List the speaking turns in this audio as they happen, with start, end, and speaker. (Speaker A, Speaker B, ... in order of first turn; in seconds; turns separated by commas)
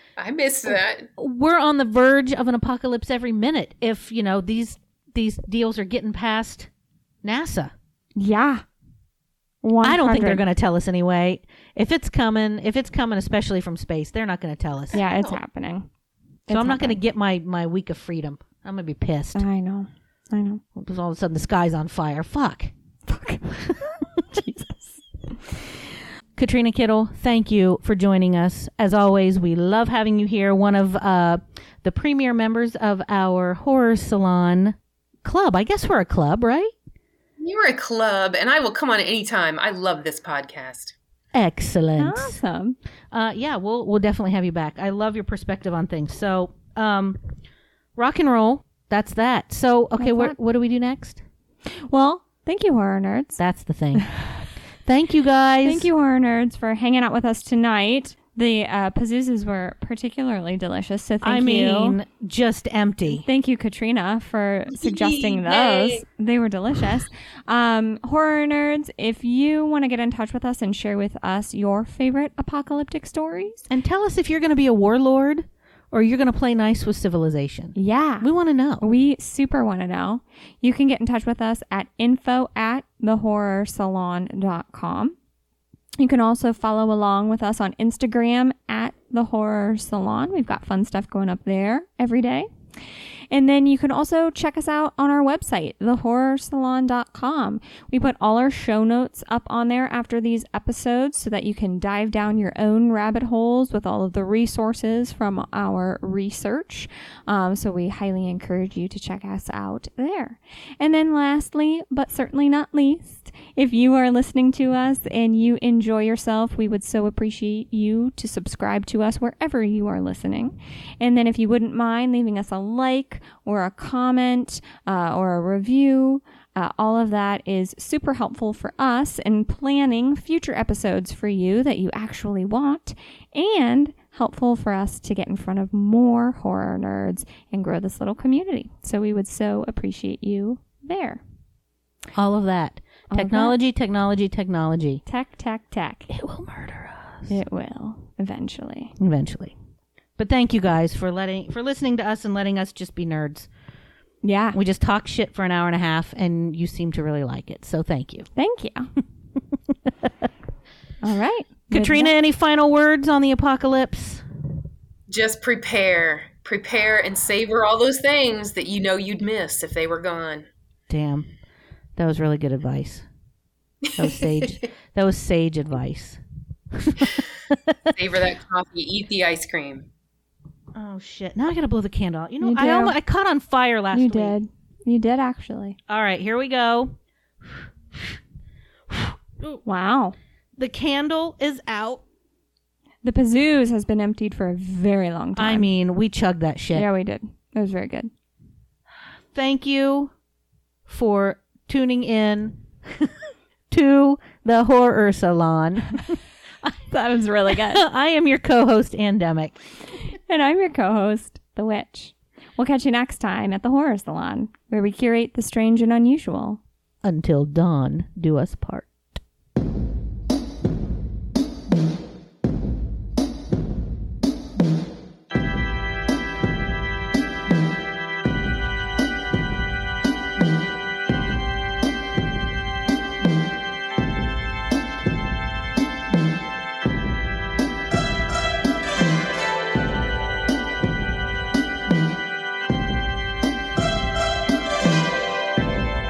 Speaker A: 0.2-1.1, Speaker B: 1.2-6.7, Speaker B: 7.2-7.7, Speaker C: 8.2-8.6, Speaker C: 9.6-10.4, Speaker B: 9.8-15.0, Speaker A: 14.9-15.4, Speaker C: 14.9-15.9, Speaker C: 16.5-17.0, Speaker B: 16.5-19.5, Speaker C: 19.4-20.6, Speaker B: 20.8-22.7, Speaker C: 23.1-25.5, Speaker B: 26.4-36.7, Speaker A: 37.4-41.0, Speaker B: 41.3-42.4, Speaker C: 42.0-42.8, Speaker B: 43.1-47.2, Speaker B: 48.0-51.2, Speaker C: 50.0-50.4, Speaker C: 51.9-53.4, Speaker B: 53.4-54.1, Speaker C: 54.0-54.4, Speaker B: 54.9-55.9, Speaker C: 55.6-62.0, Speaker B: 61.2-63.2, Speaker C: 63.1-73.6, Speaker A: 64.7-66.0, Speaker B: 73.7-78.9, Speaker C: 77.8-78.3, Speaker C: 78.8-85.2, Speaker C: 86.0-92.5, Speaker C: 93.3-141.2, Speaker B: 142.2-145.0, Speaker C: 143.1-143.6, Speaker C: 145.1-146.1, Speaker B: 146.1-147.3, Speaker C: 147.3-148.9, Speaker B: 149.0-149.5, Speaker B: 150.2-153.5, Speaker C: 154.2-154.6, Speaker B: 154.5-158.3, Speaker C: 158.4-158.9, Speaker C: 161.0-162.1, Speaker B: 161.7-164.2, Speaker A: 165.1-170.5, Speaker B: 170.9-171.3, Speaker B: 172.0-173.1, Speaker A: 173.9-174.5, Speaker B: 174.0-176.2, Speaker B: 176.7-177.9, Speaker A: 177.9-179.9, Speaker B: 180.8-184.4, Speaker C: 182.4-182.9, Speaker C: 183.9-185.8, Speaker B: 185.9-188.2, Speaker B: 188.9-189.6, Speaker C: 189.7-190.2, Speaker B: 190.6-192.0, Speaker C: 193.0-195.7, Speaker B: 195.4-196.9, Speaker C: 196.7-198.1, Speaker B: 199.3-200.1, Speaker B: 200.9-203.1, Speaker B: 203.7-206.2, Speaker C: 206.9-207.8, Speaker B: 207.6-209.6, Speaker C: 210.1-216.6, Speaker B: 217.0-219.2